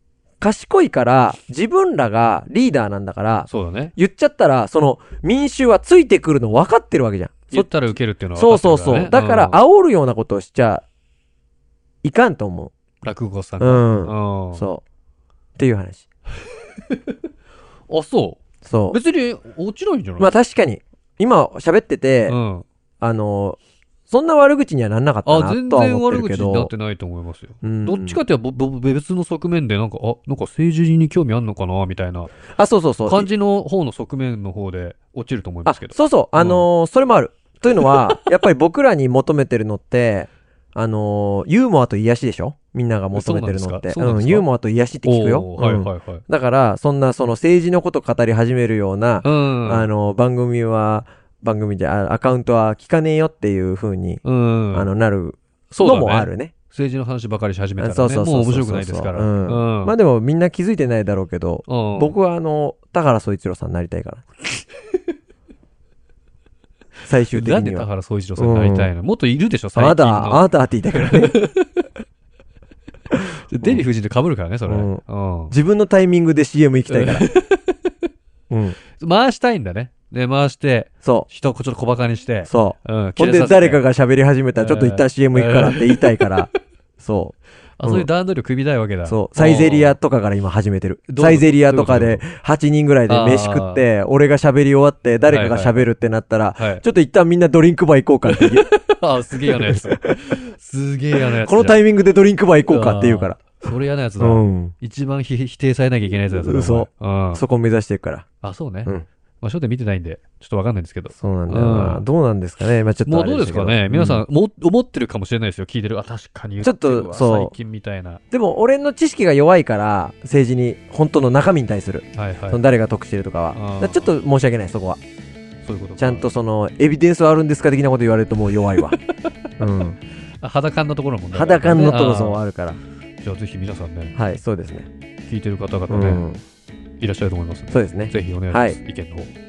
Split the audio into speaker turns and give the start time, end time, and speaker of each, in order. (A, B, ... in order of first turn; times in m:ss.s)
0:00.4-0:07.7 A
0:03.5-0:03.9 B
0:07.5-0:09.6 B
0:08.4-0:10.8 A
0:12.0-0:12.7 A
0:13.0-0:14.6 B
0:13.6-0:14.8 A
0:15.6-0:16.1 A
0:17.9-0:20.3 B
0:18.6-0:19.0 A
0:20.2-0:22.4 A
0:22.3-0:22.7 B
0:23.0-0:26.7 A
0:25.2-0:32.3 B
0:27.6-0:28.2 A
0:32.5-0:33.3 A
0:33.0-0:36.7 B
0:35.7-0:56.5 A
0:37.8-0:38.2 B
0:43.1-0:44.4 B
0:45.0-0:46.2 B
0:49.2-0:49.9 B
0:54.2-0:54.9 B
0:55.7-1:00.0 B
0:57.8-1:04.2 A
1:01.7-1:02.1 B
1:07.1-1:08.9 A
1:07.3-1:11.8 B
1:09.8-1:11.4 A
1:13.2-1:15.5 B
1:14.7-1:17.3 A
1:16.9-1:17.8 B
1:18.5-1:18.8 A
1:19.0-1:23.8 B
1:21.0-1:21.3 A
1:22.5-1:28.1 A
1:24.6-1:26.4 B
1:27.8-1:30.0 B
1:29.0-1:38.7 A
1:31.1-1:32.2 B
1:33.1-1:33.8 B
1:35.3-1:35.9 B
1:36.6-1:36.8 B
1:38.3-1:41.8 B
1:39.5-1:40.2 A
1:41.2-1:43.6 A
1:42.7-1:47.4 B
1:44.2-1:44.7 A
1:46.3-1:48.3 A
1:48.4-1:52.0 B
1:51.2-1:54.2 A
1:53.1-1:58.2 B
1:56.6-1:57.5 A
1:58.3-2:05.0 A
2:02.2-2:02.6 B
2:03.5-2:04.1 B
2:05.6-2:06.3 B
2:06.0-2:09.0 A
2:09.6-2:10.0 A
2:10.4-2:12.4 B
2:11.3-2:12.8 A
2:13.2-2:14.1 B
2:14.2-2:14.9 A
2:15.3-2:16.2 B
2:15.9-2:16.4 A
2:17.0-2:19.3 B
2:17.7-2:18.8 A